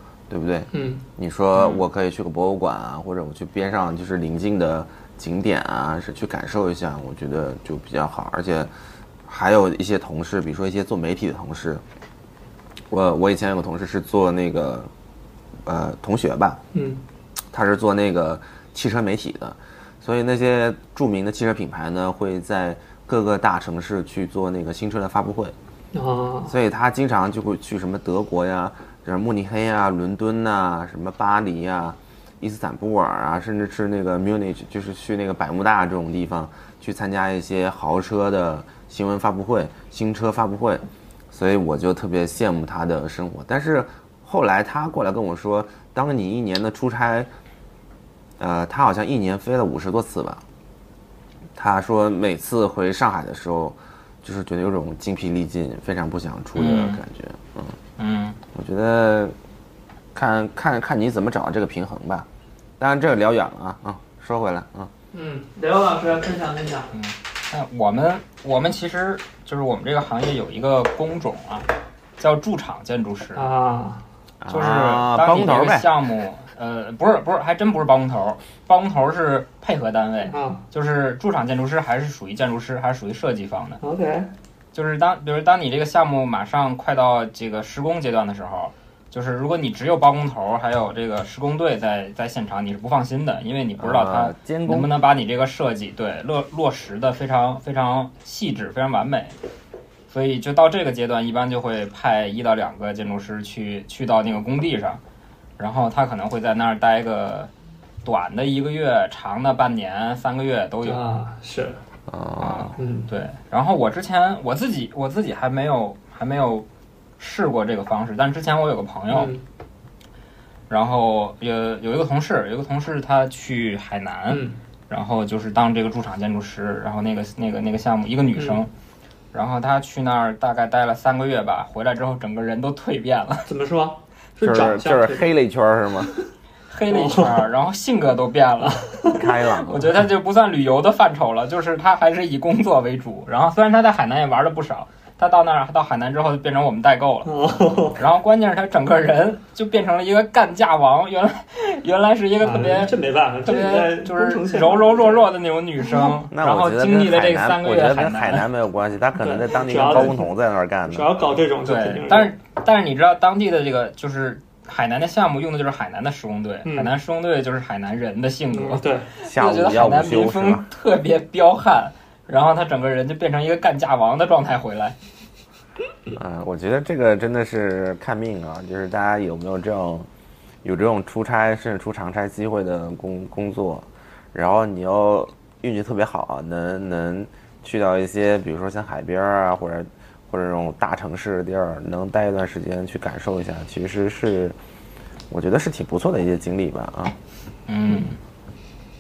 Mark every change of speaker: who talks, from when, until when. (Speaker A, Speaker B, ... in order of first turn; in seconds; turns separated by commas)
Speaker A: 0.3-8.7, Speaker B: 0.7-1.0, Speaker C: 1.6-1.8, Speaker A: 9.2-11.8, Speaker A: 12.9-14.9, Speaker A: 15.7-16.6, Speaker B: 16.7-17.0, Speaker A: 17.5-25.6, Speaker B: 25.9-26.5, Speaker A: 26.5-47.3, Speaker A: 48.4-50.4, Speaker A: 51.5-57.8, Speaker C: 56.6-57.0, Speaker C: 58.0-58.4, Speaker A: 58.5-59.4, Speaker A: 60.1-62.3, Speaker A: 62.8-64.9, Speaker B: 65.1-66.9, Speaker C: 66.9-73.5, Speaker B: 73.4-74.0, Speaker A: 74.4-75.9, Speaker C: 74.5-83.8, Speaker B: 80.3-80.6, Speaker B: 83.8-84.3, Speaker C: 84.7-99.4, Speaker A: 93.8-94.9, Speaker C: 100.1-105.0, Speaker C: 105.6-107.5, Speaker C: 108.0-111.0, Speaker B: 110.8-111.8, Speaker A: 112.1-112.8, Speaker C: 112.4-116.7, Speaker B: 112.8-113.1, Speaker C: 117.2-119.3, Speaker B: 119.1-119.4, Speaker C: 120.7-128.7, Speaker B: 124.3-124.6, Speaker B: 128.4-128.6, Speaker C: 129.3-133.5, Speaker B: 133.5-135.3, Speaker A: 134.4-136.1, Speaker C: 136.7-139.0, Speaker B: 136.9-137.4, Speaker B: 138.7-139.2, Speaker A: 139.1-140.0, Speaker C: 139.7-147.3, Speaker B: 147.2-148.0, Speaker C: 148.0-152.9, Speaker B: 152.4-156.2, Speaker C: 153.5-158.4, Speaker A: 156.3-161.1, Speaker B: 159.2-160.3, Speaker B: 160.9-162.3, Speaker C: 161.7-175.0, Speaker B: 166.7-166.9, Speaker B: 168.5-169.1, Speaker A: 169.2-170.7, Speaker A: 176.2-180.1, Speaker A: 180.6-194.6, Speaker A: 195.3-197.2, Speaker C: 197.7-198.2